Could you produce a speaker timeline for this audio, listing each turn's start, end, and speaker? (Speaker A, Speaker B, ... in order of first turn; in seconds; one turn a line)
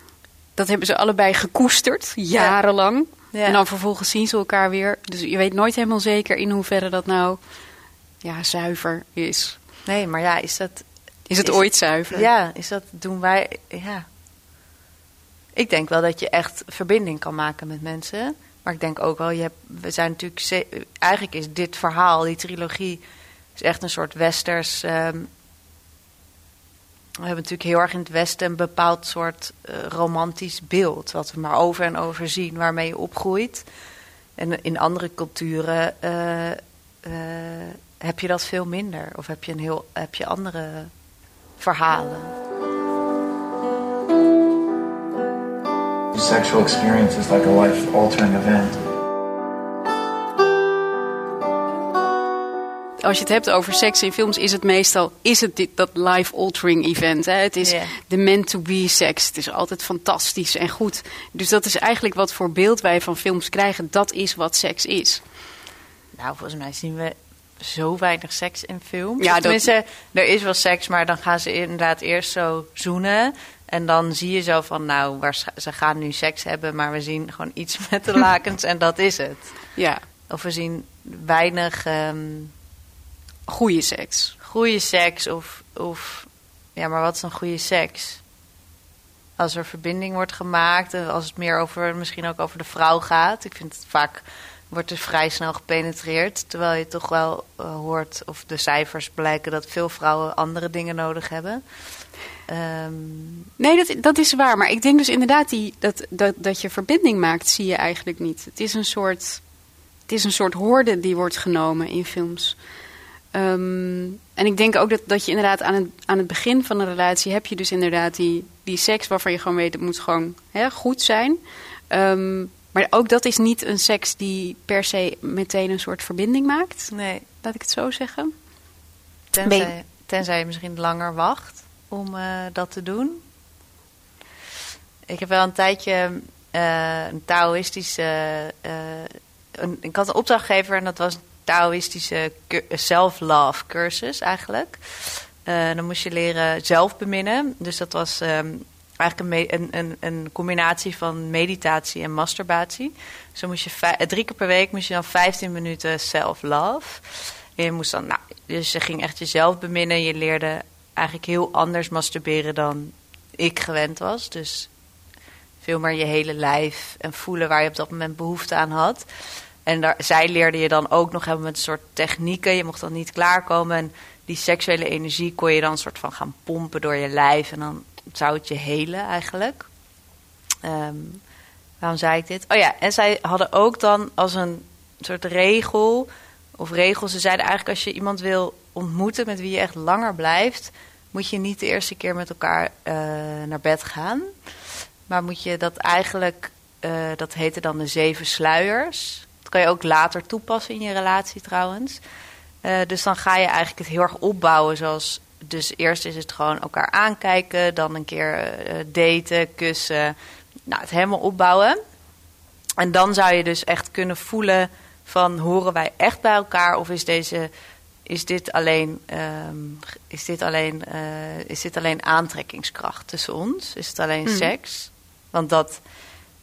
Speaker A: 0.6-7.4
Speaker B: 3.3-3.6
Speaker A: 8.2-9.6
Speaker B: 9.8-10.8
Speaker A: 11.3-12.3
Speaker B: 11.4-14.1
Speaker B: 15.5-23.0
Speaker B: 23.6-25.3
Speaker B: 27.2-33.6
Speaker B: 34.4-40.9
Speaker B: 41.6-42.3
Speaker C: 46.1-48.8
Speaker A: 53.0-65.2
Speaker B: 57.6-57.9
Speaker B: 66.1-79.5
Speaker A: 69.2-69.7
Speaker A: 79.8-80.0
Speaker B: 80.3-82.5
Speaker A: 83.5-84.3
Speaker B: 84.4-88.2
Speaker B: 89.4-101.6
Speaker B: 102.5-103.5
Speaker A: 103.6-109.4
Speaker A: 110.1-112.6
Speaker A: 113.3-121.4
Speaker A: 121.9-128.3
Speaker B: 126.9-127.2
Speaker B: 129.3-133.2
Speaker A: 129.4-129.7
Speaker B: 135.1-164.7
Speaker B: 165.6-169.1
Speaker B: 169.7-179.7
Speaker B: 180.6-181.2
Speaker B: 181.8-194.3
Speaker B: 195.1-202.0
Speaker B: 202.6-210.1
Speaker B: 210.7-211.8
Speaker B: 212.8-217.5
Speaker B: 218.1-225.8